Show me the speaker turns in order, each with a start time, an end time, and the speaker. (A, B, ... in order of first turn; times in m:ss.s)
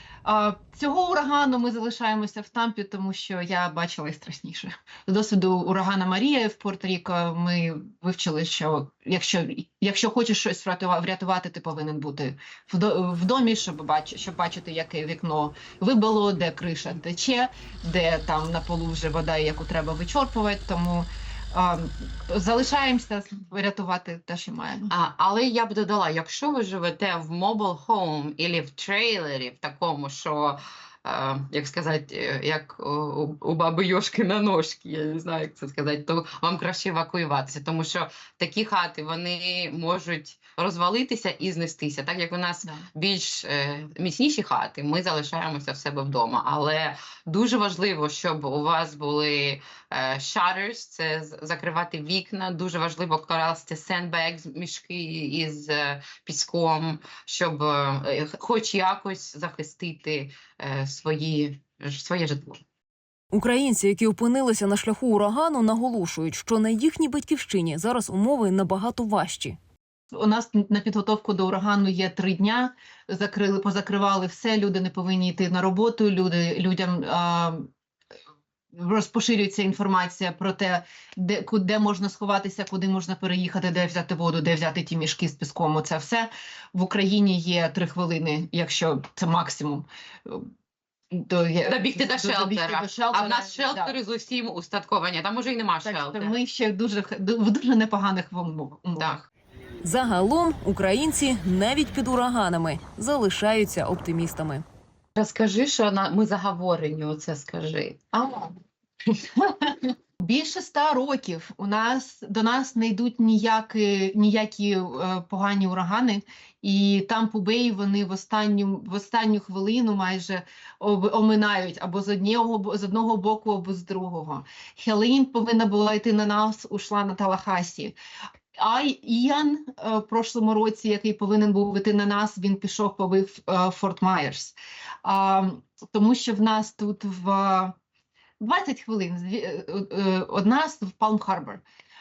0:00.2-0:24.9 A
0:24.9-1:02.6 B
1:03.3-1:09.6 C
1:10.1-1:17.7 A
1:18.7-1:30.4 A
1:31.1-1:33.9 A
1:31.6-1:36.3 B
1:35.8-1:39.3 A
1:38.9-1:39.2 B
1:39.8-1:44.6 C
1:45.2-1:48.0 B
1:48.1-1:48.5 A
1:49.4-2:07.9 A
2:08.6-2:17.7 A
2:18.4-2:21.6 A